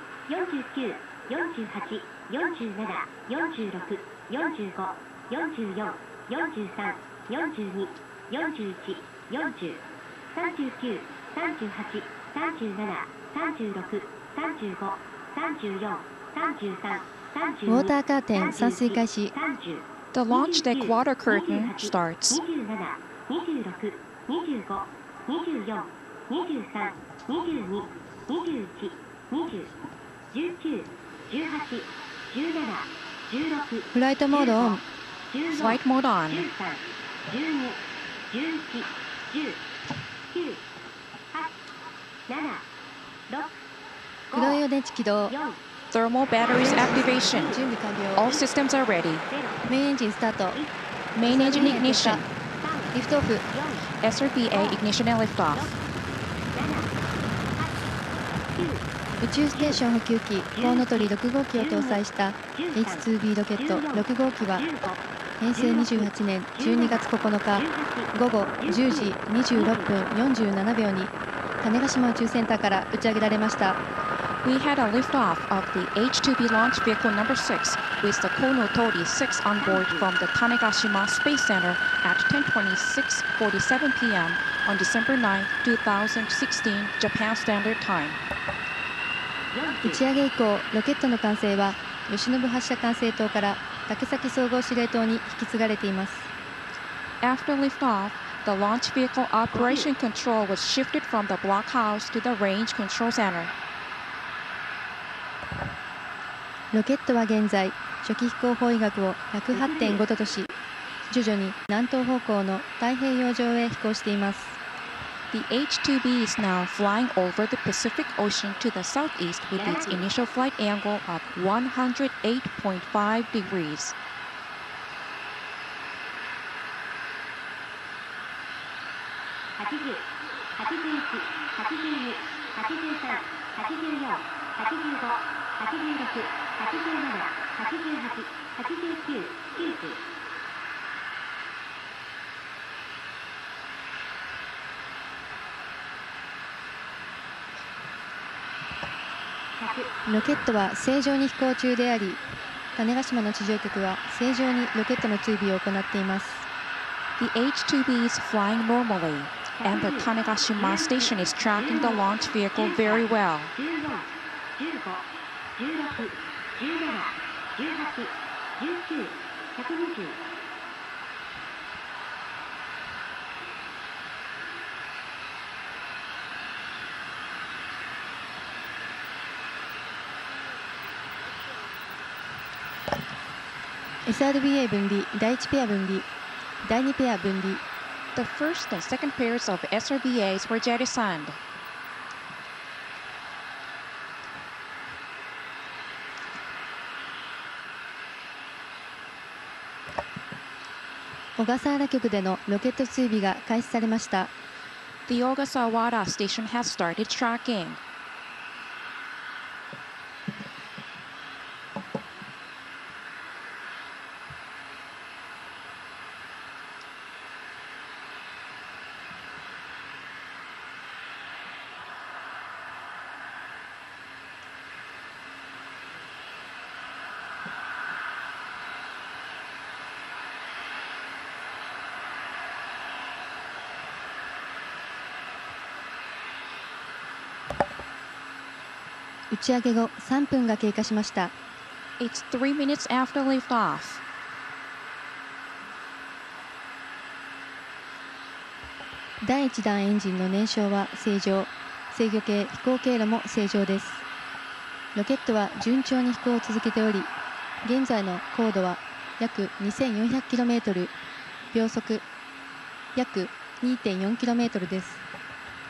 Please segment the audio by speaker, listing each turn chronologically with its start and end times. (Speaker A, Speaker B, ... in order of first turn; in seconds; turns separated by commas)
Speaker A: 0.3-17.9, Speaker B: 17.7-19.4, Speaker A: 18.4-19.9, Speaker C: 20.1-22.4, Speaker A: 20.4-29.7, Speaker A: 30.3-33.9, Speaker B: 33.9-34.8, Speaker A: 35.3-35.8, Speaker C: 35.5-36.5, Speaker A: 36.3-39.6, Speaker A: 40.3-40.6, Speaker A: 42.3-42.7, Speaker A: 43.3-43.5, Speaker B: 44.3-45.4, Speaker A: 45.3-45.6, Speaker C: 45.9-47.5, Speaker B: 47.0-48.3, Speaker C: 48.2-49.2, Speaker A: 49.3-49.6, Speaker B: 49.6-50.6, Speaker C: 51.2-52.2, Speaker B: 51.3-52.2, Speaker A: 52.6-52.9, Speaker B: 52.9-53.5, Speaker A: 53.5-53.9, Speaker C: 54.0-55.8, Speaker A: 56.5-56.9, Speaker A: 58.5-58.9, Speaker B: 59.2-64.7, Speaker A: 64.7-65.0, Speaker B: 65.4-73.8, Speaker A: 67.6-68.1, Speaker C: 74.4-88.2, Speaker A: 79.7-80.1, Speaker A: 89.5-90.0, Speaker B: 89.8-96.3, Speaker C: 97.2-103.5, Speaker B: 106.7-110.5, Speaker B: 111.1-114.6, Speaker C: 115.3-124.0, Speaker A: 119.6-120.1, Speaker A: 129.6-140.0, Speaker A: 149.6-149.9, Speaker B: 150.1-152.2, Speaker B: 152.8-156.5, Speaker C: 157.2-163.5, Speaker A: 163.6-165.1, Speaker A: 165.6-170.2, Speaker B: 184.1-186.1, Speaker B: 186.6-187.6, Speaker C: 188.2-191.4, Speaker B: 201.4-204.3, Speaker C: 205.1-207.8, Speaker B: 239.3-241.3, Speaker C: 242.0-244.0, Speaker B: 249.2-254.0, Speaker B: 254.9-257.1, Speaker B: 257.6-260.9, Speaker B: 261.5-262.0, Speaker B: 262.9-265.0